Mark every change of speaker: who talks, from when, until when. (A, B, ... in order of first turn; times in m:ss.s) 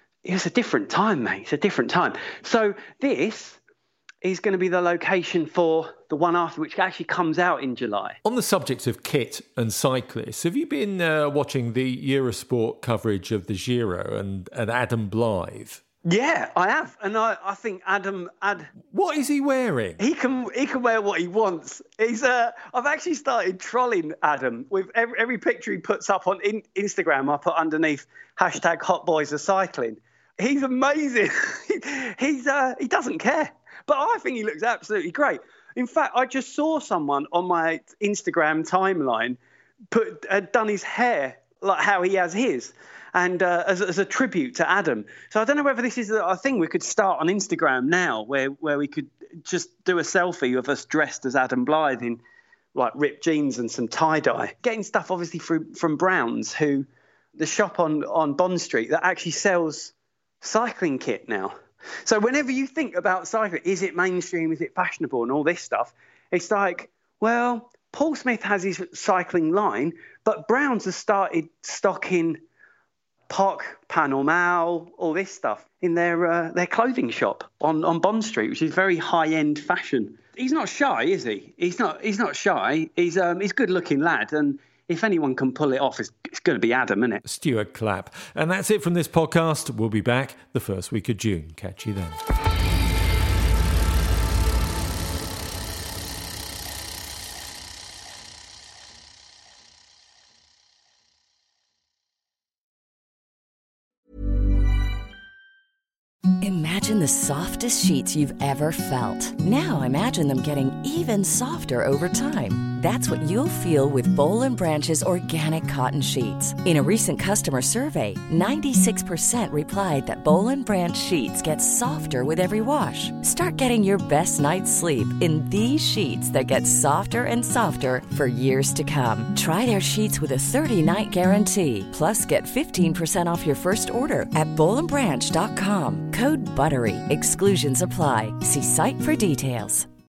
0:00.2-0:03.6 A
0:04.2-0:08.2 A
0:08.2-0:15.8 B
0:16.1-0:18.7 A
0:18.9-0:20.0 B
0:20.0-0:39.4 A
0:39.9-0:52.2 A
0:52.8-0:56.9 A
0:57.4-1:12.4 A
1:13.3-1:27.2 A
1:27.2-1:32.2 B
1:46.4-2:19.9 C